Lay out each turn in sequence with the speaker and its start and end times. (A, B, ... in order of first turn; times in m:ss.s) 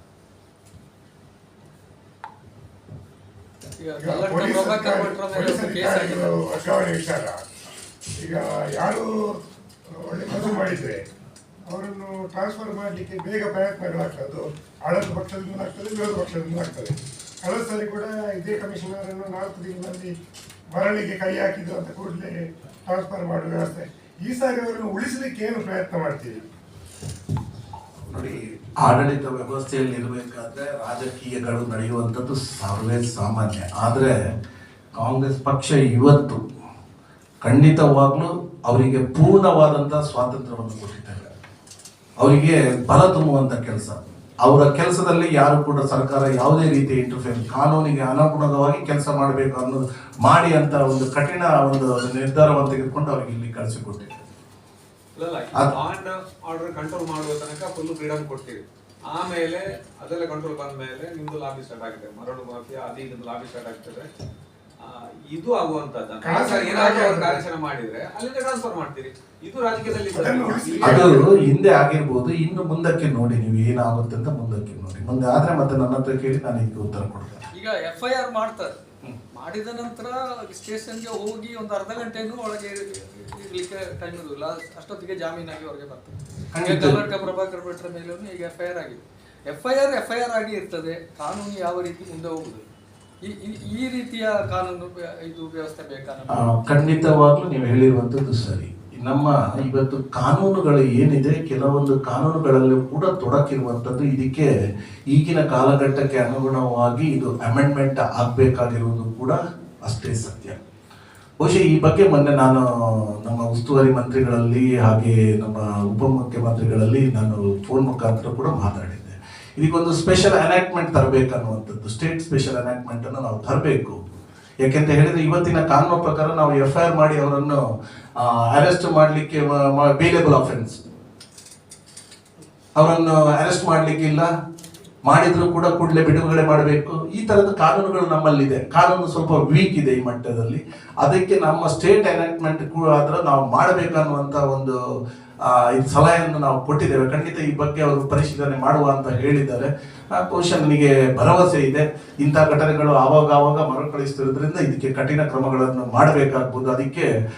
0:03.8-0:06.3 A
0:04.0-0:07.4 B
0:08.2-0:09.4 B
0:09.9-0:11.0 B
0:11.7-0:20.1 B
0:20.7-0:26.4 B
0:28.0-0:34.1 C
0:34.9-0:36.4 C
0:37.4-0:41.3 C
0:42.2-0:54.2 C
0:55.1-1:04.0 D
1:04.8-1:11.2 D
1:06.2-1:07.4 B
1:10.1-1:11.2 B
1:10.8-1:17.4 C
1:17.5-1:18.7 A
1:19.3-1:32.6 A
1:26.5-1:27.0 C
1:33.2-1:36.5 A
1:36.3-1:44.5 C
1:45.1-1:50.6 C
1:51.4-1:52.6 C
1:53.2-2:04.0 C
2:04.6-2:07.6 C
2:08.2-2:10.8 C
2:12.8-2:14.3 C
2:15.1-2:24.8 C
2:25.4-2:37.1 C